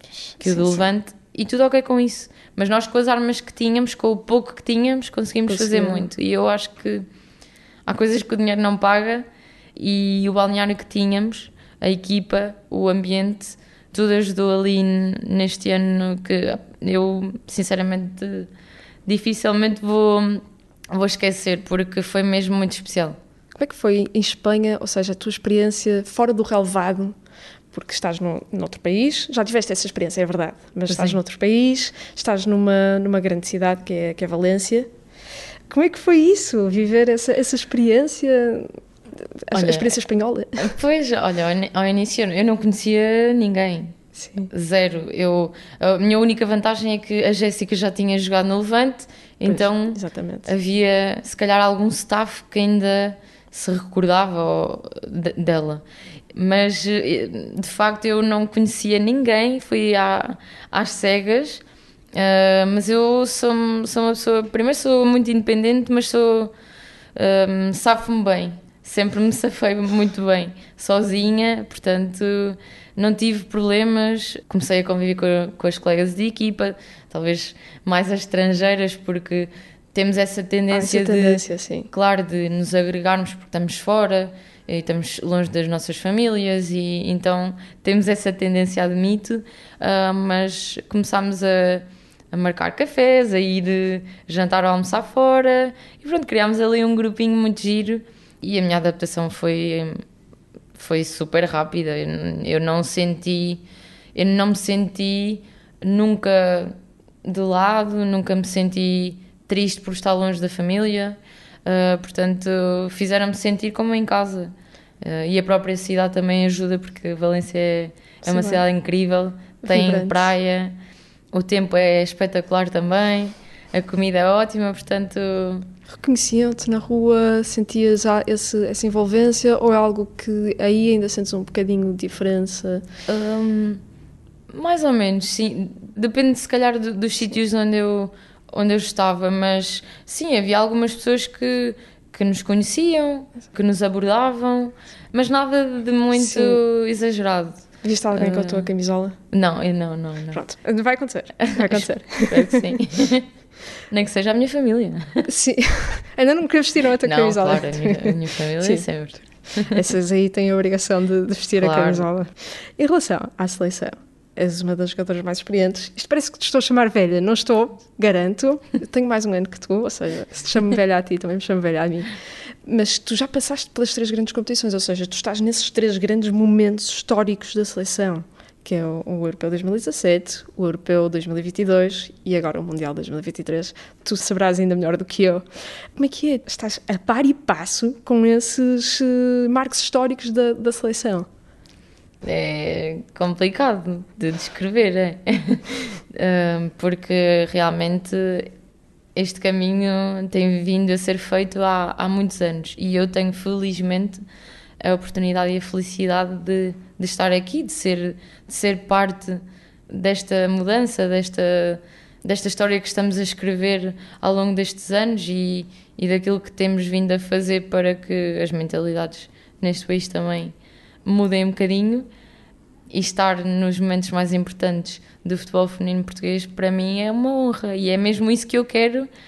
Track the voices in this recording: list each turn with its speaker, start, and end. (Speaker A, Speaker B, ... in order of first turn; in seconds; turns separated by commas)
Speaker A: 0.3-0.9, Speaker B: 0.4-7.0, Speaker A: 5.5-6.0, Speaker B: 7.9-18.5, Speaker B: 19.1-23.2, Speaker A: 23.5-27.2, Speaker A: 27.7-34.9, Speaker B: 30.9-31.2, Speaker A: 35.7-40.7, Speaker B: 39.5-39.9, Speaker B: 40.6-44.0, Speaker A: 44.1-44.5, Speaker B: 44.5-55.8, Speaker A: 49.4-50.5, Speaker B: 56.3-61.6, Speaker B: 62.1-66.5, Speaker B: 67.2-81.4, Speaker A: 80.7-81.9, Speaker B: 81.9-100.0, Speaker B: 100.7-103.6, Speaker B: 104.1-120.7, Speaker A: 118.2-118.6, Speaker A: 119.6-120.3, Speaker B: 121.3-125.7, Speaker A: 125.9-132.8, Speaker B: 133.1-133.8, Speaker B: 134.5-148.7, Speaker A: 146.1-146.6, Speaker A: 147.8-149.2, Speaker B: 149.3-150.4, Speaker A: 150.3-152.7, Speaker B: 151.4-153.3, Speaker B: 153.9-155.3, Speaker A: 155.3-158.9, Speaker B: 157.0-159.8, Speaker A: 159.6-191.3, Speaker B: 161.6-162.1, Speaker B: 192.2-198.5, Speaker B: 199.1-204.2, Speaker B: 204.8-222.1, Speaker B: 222.9-229.1